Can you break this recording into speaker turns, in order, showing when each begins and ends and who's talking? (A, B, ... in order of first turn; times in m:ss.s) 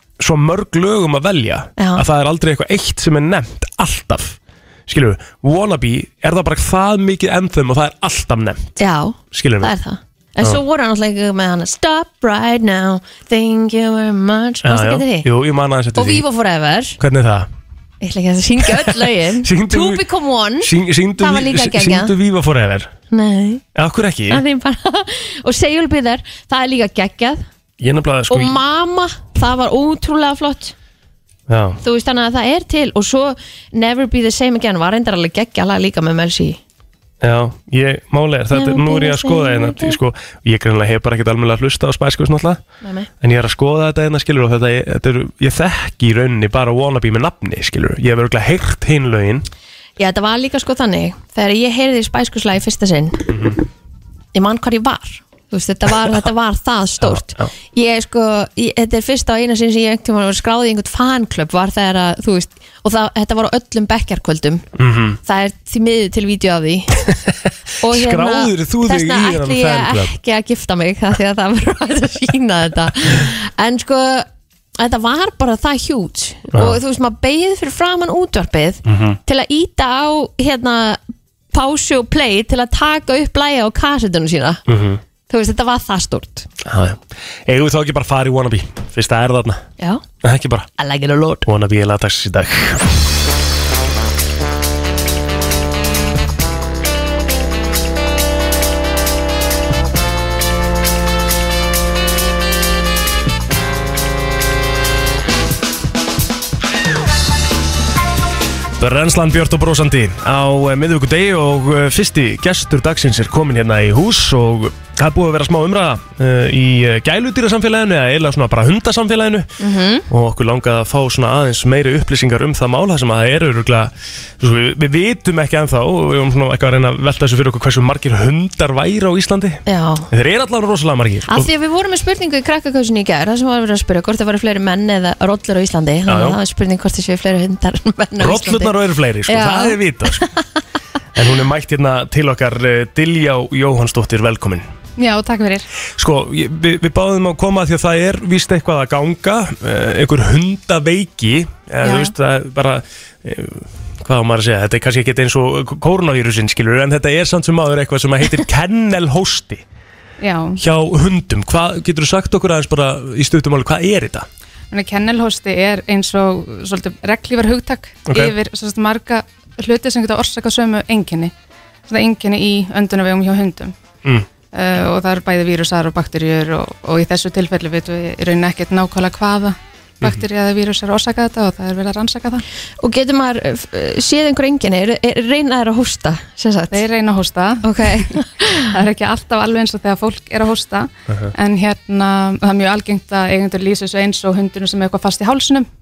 0:00.2-0:08.8 A
0:01.8-0:02.0 B
0:08.8-0:15.3 B
0:09.3-0:09.7 A
0:14.6-0:16.2 A
0:15.9-0:17.0 B
0:17.0-0:17.5 A
0:18.0-0:22.1 B
0:18.6-0:20.0 A
0:20.6-0:22.9 A
0:23.1-0:23.6 B
0:23.7-0:24.4 A
0:24.3-0:27.4 B
0:27.8-0:28.6 A
0:28.3-0:30.7 B
0:31.5-0:31.8 A
0:31.8-0:36.6 B
0:37.2-0:42.6 A
0:38.5-0:40.0 B
0:42.8-0:43.1 B
0:43.2-0:49.5 A
0:50.0-0:53.3 B
0:53.3-0:53.6 A
0:54.3-1:04.6 B
0:57.0-0:57.5 A
1:04.8-1:05.2 A
1:05.2-1:07.1 B
1:07.8-1:14.3 B
1:07.8-1:10.1 A
1:14.8-1:21.0 B
1:16.5-1:16.8 A
1:18.8-1:19.2 A
1:21.5-1:24.6 B
1:24.7-1:25.0 A
1:25.3-1:26.5 B
1:26.6-1:29.6 A
1:30.2-1:30.7 A
1:30.8-1:31.4 B
1:31.4-1:32.9 A
1:48.8-2:11.5 A
1:59.6-2:00.0 B
2:09.6-2:10.1 B
2:11.3-2:20.4 B
2:16.1-2:16.4 A
2:18.2-2:20.3 A
2:21.1-2:24.6 A
2:25.0-2:25.6 C
2:26.0-2:39.6 A
2:31.8-2:32.1 C
2:40.2-2:40.6 C
2:40.6-2:44.3 A
2:44.7-2:51.3 C
2:48.1-2:48.3 A
2:51.9-2:53.7 C
2:54.5-3:02.4 C
3:02.8-3:06.8 B
3:06.7-3:15.6 C
3:07.6-3:08.7 B